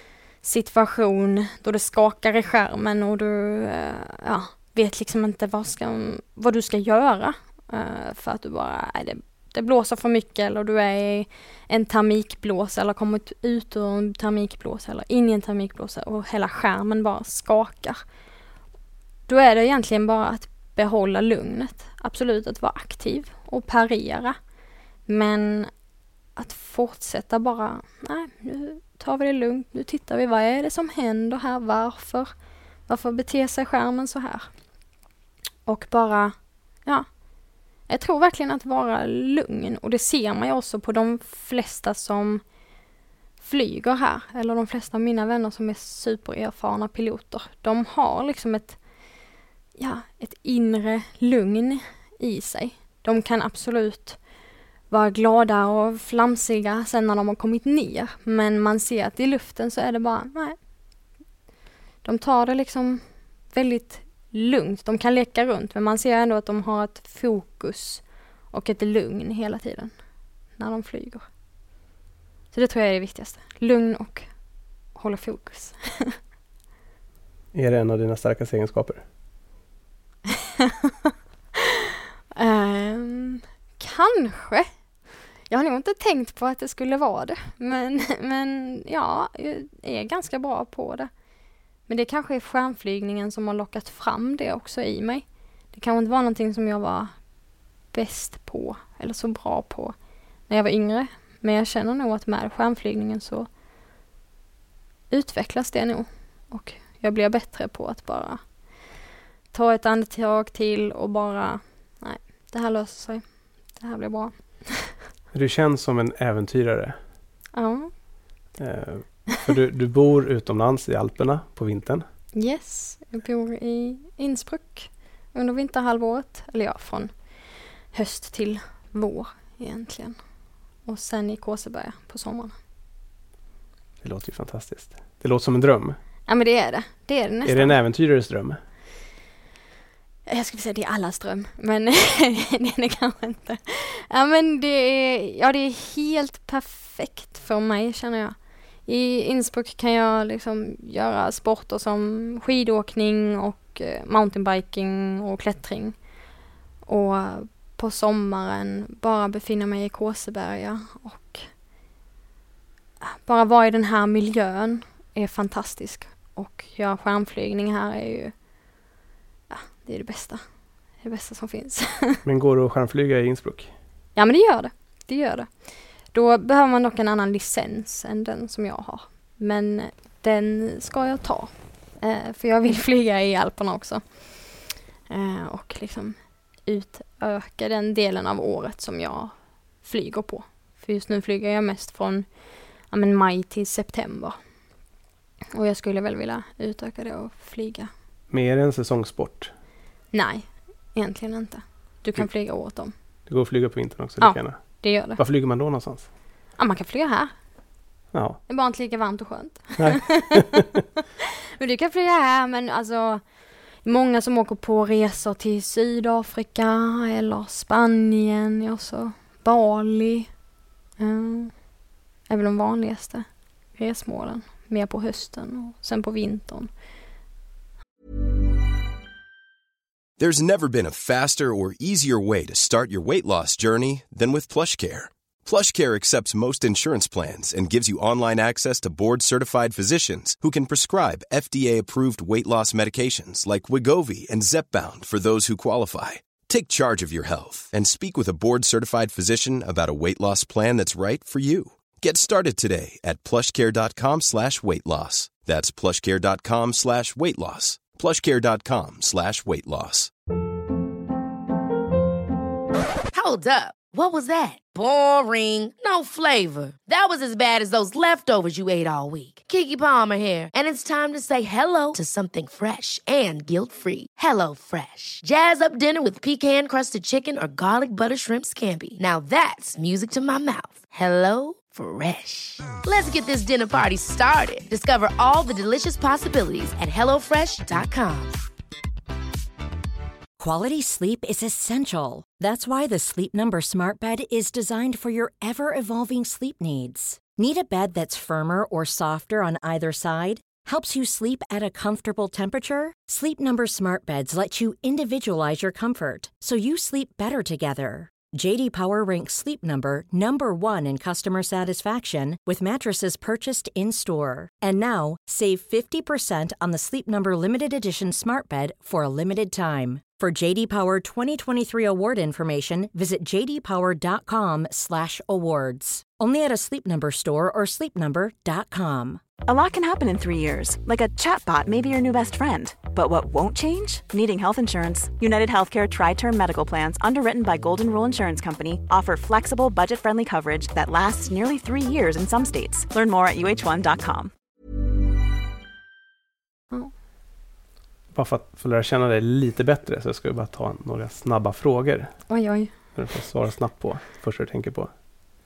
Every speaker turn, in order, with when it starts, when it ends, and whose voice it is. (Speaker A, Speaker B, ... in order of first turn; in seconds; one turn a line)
Speaker A: 0.4-18.0
Speaker A: 19.3-24.4
Speaker A: 25.1-25.7
Speaker A: 26.4-32.3
Speaker A: 32.9-34.5
Speaker A: 35.6-37.1
Speaker A: 37.9-42.4
Speaker A: 43.4-48.8
Speaker A: 49.8-54.2
Speaker A: 54.9-60.5
Speaker A: 62.0-69.9
Speaker A: 70.5-71.2
Speaker A: 72.5-74.3
Speaker A: 74.9-76.2
Speaker B: 77.5-79.0
Speaker A: 80.3-81.6
Speaker A: 82.3-84.7
Speaker A: 85.5-91.1
Speaker A: 91.9-97.1
Speaker A: 97.9-99.9
Speaker A: 100.5-103.5
Speaker A: 105.1-108.4
Speaker A: 109.5-114.9
Speaker B: 115.3-117.0
Speaker A: 117.5-117.9
Speaker B: 118.6-122.0
Speaker A: 122.3-127.1
Speaker A: 127.9-130.2
Speaker A: 130.8-132.5
Speaker B: 134.0-136.0
Speaker A: 136.3-137.7
Speaker B: 137.4-138.6
Speaker A: 140.3-148.3
Speaker A: 148.8-155.9
Speaker A: 156.8-161.5
Speaker A: 163.0-168.3
Speaker A: 169.5-170.4
Speaker A: 171.0-172.2
Speaker B: 172.2-173.7
Speaker A: 174.2-175.5
Speaker A: 176.1-184.0
Speaker A: 185.1-192.3
Speaker A: 192.9-194.4
Speaker A: 195.5-197.9
Speaker B: 198.3-199.5
Speaker A: 200.1-202.9
Speaker B: 203.3-206.1
Speaker A: 204.2-205.2
Speaker A: 206.6-207.3
Speaker B: 208.1-208.4
Speaker A: 208.5-210.4
Speaker B: 209.8-210.7
Speaker A: 211.6-213.2
Speaker A: 213.8-220.3
Speaker A: 221.0-221.5
Speaker A: 222.3-226.7
Speaker C: 230.2-260.1
Speaker D: 263.1-288.3
Speaker E: 290.4-329.2
Speaker F: 329.4-344.3
Speaker B: 348.1-352.1
Speaker A: 352.3-352.7
Speaker B: 352.9-354.9